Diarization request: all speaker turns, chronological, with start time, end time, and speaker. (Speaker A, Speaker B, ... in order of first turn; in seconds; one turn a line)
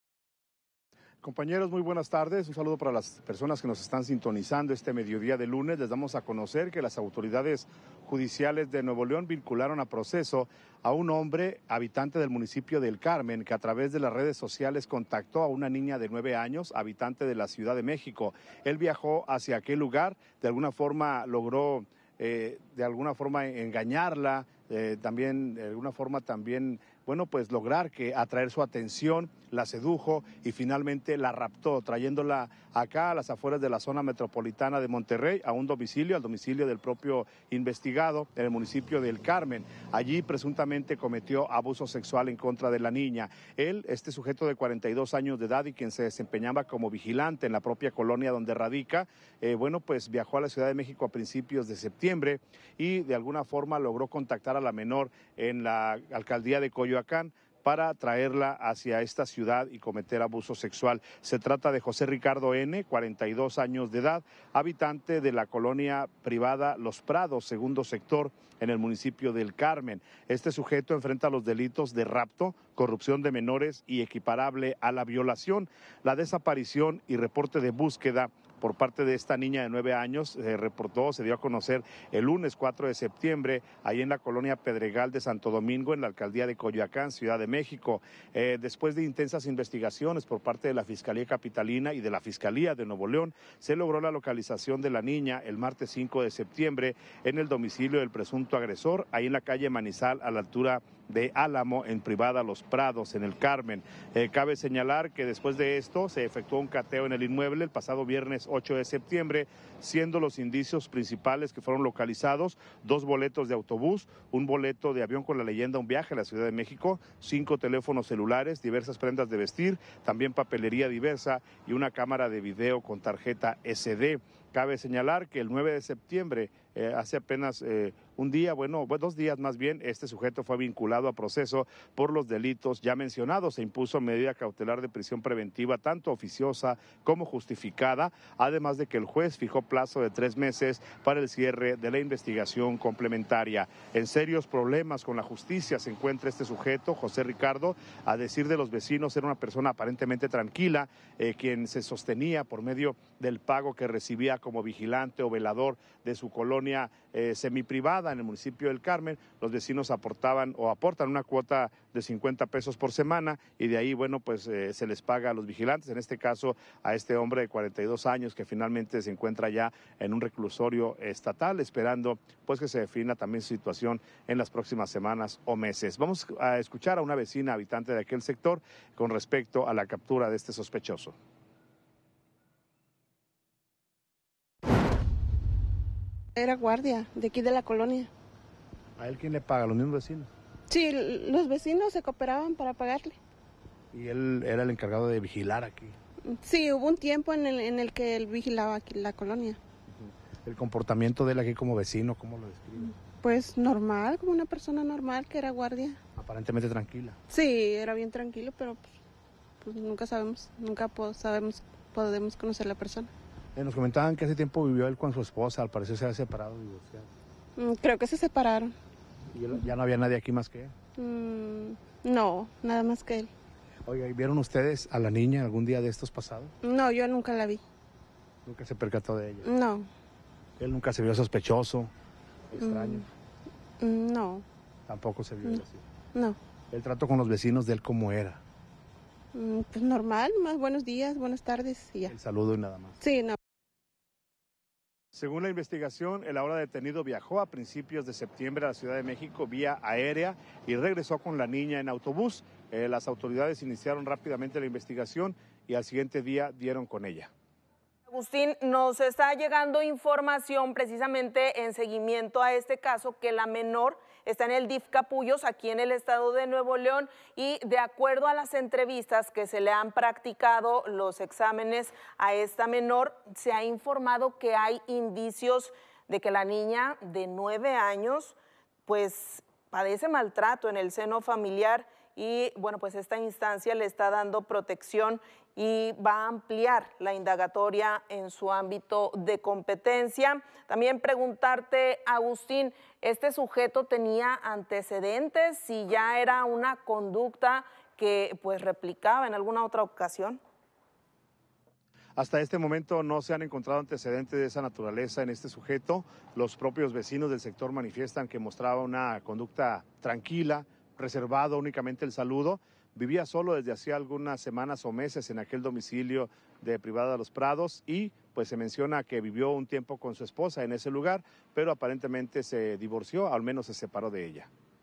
Speaker A: 1.2-181.1
Speaker B: 186.3-188.1
Speaker A: 189.0-190.3
Speaker B: 190.7-193.2
Speaker A: 193.9-195.9
Speaker B: 196.3-199.6
Speaker A: 200.0-202.9
Speaker B: 203.2-206.0
Speaker A: 206.2-207.2
Speaker B: 207.3-208.9
Speaker B: 209.6-213.1
Speaker A: 213.6-217.1
Speaker B: 217.6-218.7
Speaker A: 219.3-220.7
Speaker B: 221.0-223.3
Speaker A: 223.8-226.5
Speaker B: 226.6-227.6
Speaker A: 228.4-229.5
Speaker B: 229.4-229.9
Speaker A: 230.6-231.9
Speaker A: 232.5-233.1
Speaker B: 232.6-233.1
Speaker B: 233.8-234.4
Speaker A: 234.9-235.8
Speaker A: 236.7-238.4
Speaker B: 239.3-242.1
Speaker A: 242.1-243.0
Speaker B: 243.0-243.4
Speaker A: 245.1-257.3
Speaker C: 258.1-300.4
Speaker A: 302.2-324.5